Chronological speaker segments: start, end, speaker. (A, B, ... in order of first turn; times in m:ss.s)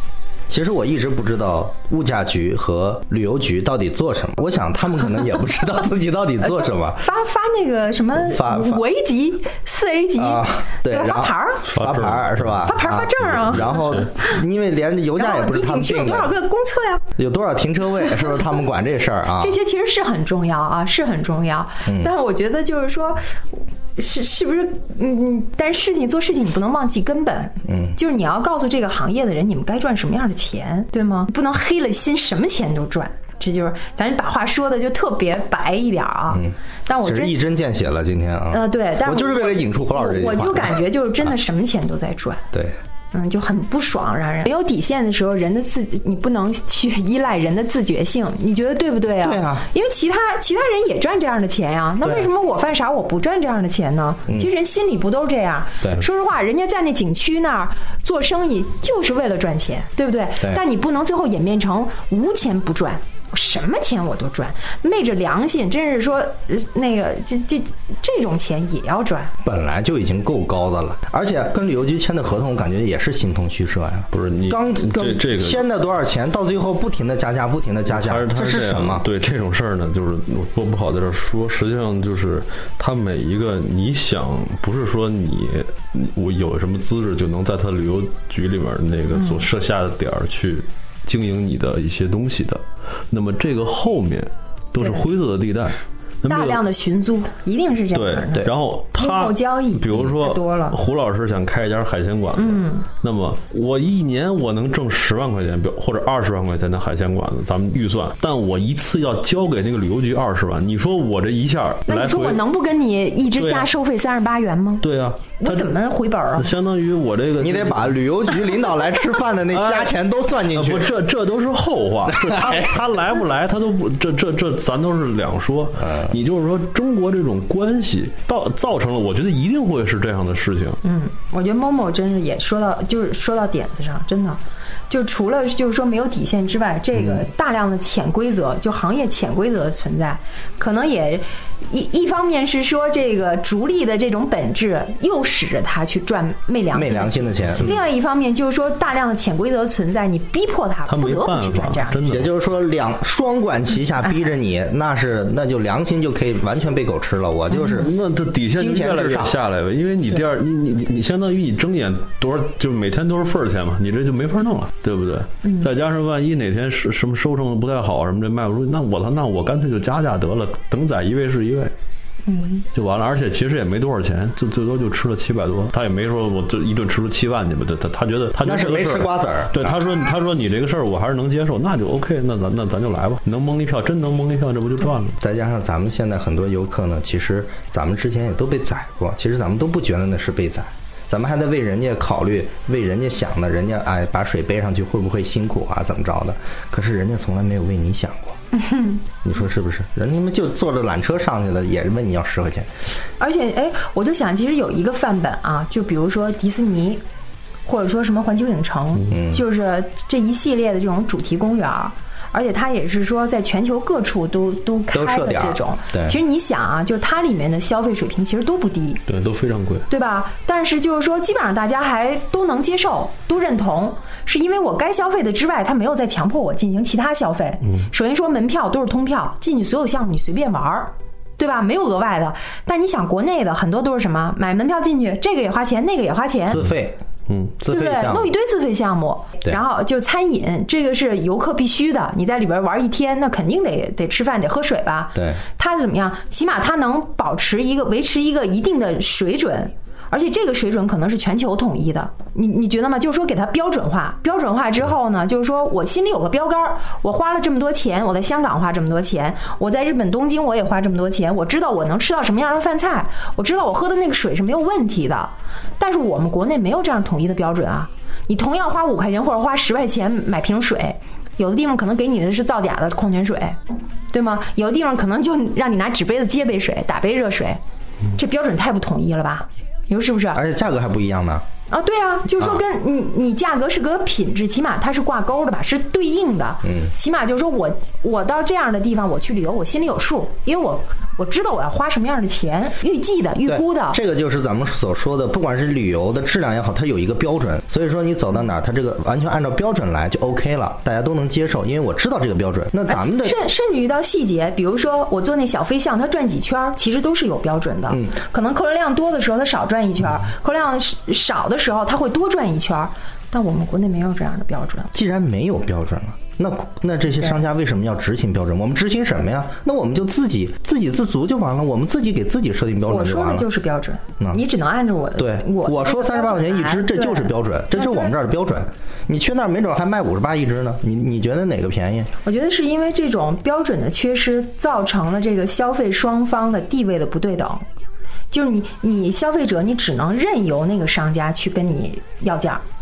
0:00.5-0:07.0 A
0:07.0-0:11.7 B
0:08.2-0:08.8 A
0:10.2-0:16.3 A
0:11.7-0:12.7 C
0:12.6-0:14.4 B
0:15.2-0:17.0 B
0:17.2-0:19.6 A
0:18.0-0:18.3 B
0:19.4-0:23.4 B
0:21.8-0:22.1 A
0:24.0-0:37.4 B
0:27.7-0:28.0 A
0:36.3-0:40.8 A
0:38.5-0:42.4 B
0:43.1-1:09.3 B
0:49.2-0:49.7 A
0:52.0-0:52.3 A
1:09.4-1:19.0 A
1:14.1-1:15.6 C
1:17.9-1:36.6 C
1:29.1-1:29.5 B
1:34.8-1:35.0 B
1:36.3-1:40.8 B
1:37.9-1:52.4 C
1:42.4-1:42.9 B
1:51.9-1:54.9 B
1:53.3-1:53.7 C
1:54.8-1:55.8 C
1:55.4-1:56.5 B
1:56.4-1:58.0 C
1:57.4-2:00.9 A
1:59.5-2:10.8 C
2:02.1-2:02.7 A
2:05.8-2:06.2 A
2:10.8-2:32.1 B
2:17.0-2:17.2 A
2:26.7-2:27.8 A
2:30.9-2:32.3 C
2:32.0-2:37.9 A
2:37.6-2:51.7 C
2:38.5-2:39.4 A
2:45.4-2:45.7 B
2:52.2-2:52.6 B
2:52.7-3:05.2 C
2:58.4-2:59.8 A
3:05.2-3:18.4 A
3:18.5-3:19.0 B
3:19.2-3:22.7 A
3:23.2-3:27.0 B
3:27.6-3:39.0 B
3:29.1-3:29.4 A
3:34.9-3:36.2 A
3:39.1-3:39.8 C
3:39.9-3:56.6 B
3:56.5-3:57.0 A
3:57.6-3:58.3 A
3:57.7-4:33.6 B
4:05.2-4:05.4 A
4:34.1-4:37.6 B
4:38.1-4:40.4 B
4:40.3-4:41.4 A
4:41.7-4:54.0 B
4:53.4-5:03.4 A
5:02.9-5:14.9 B
5:07.9-5:08.1 A
5:14.9-5:23.5 A
5:22.9-5:28.1 B
5:25.2-5:32.1 A
5:32.2-5:37.6 B
5:38.3-5:42.6 B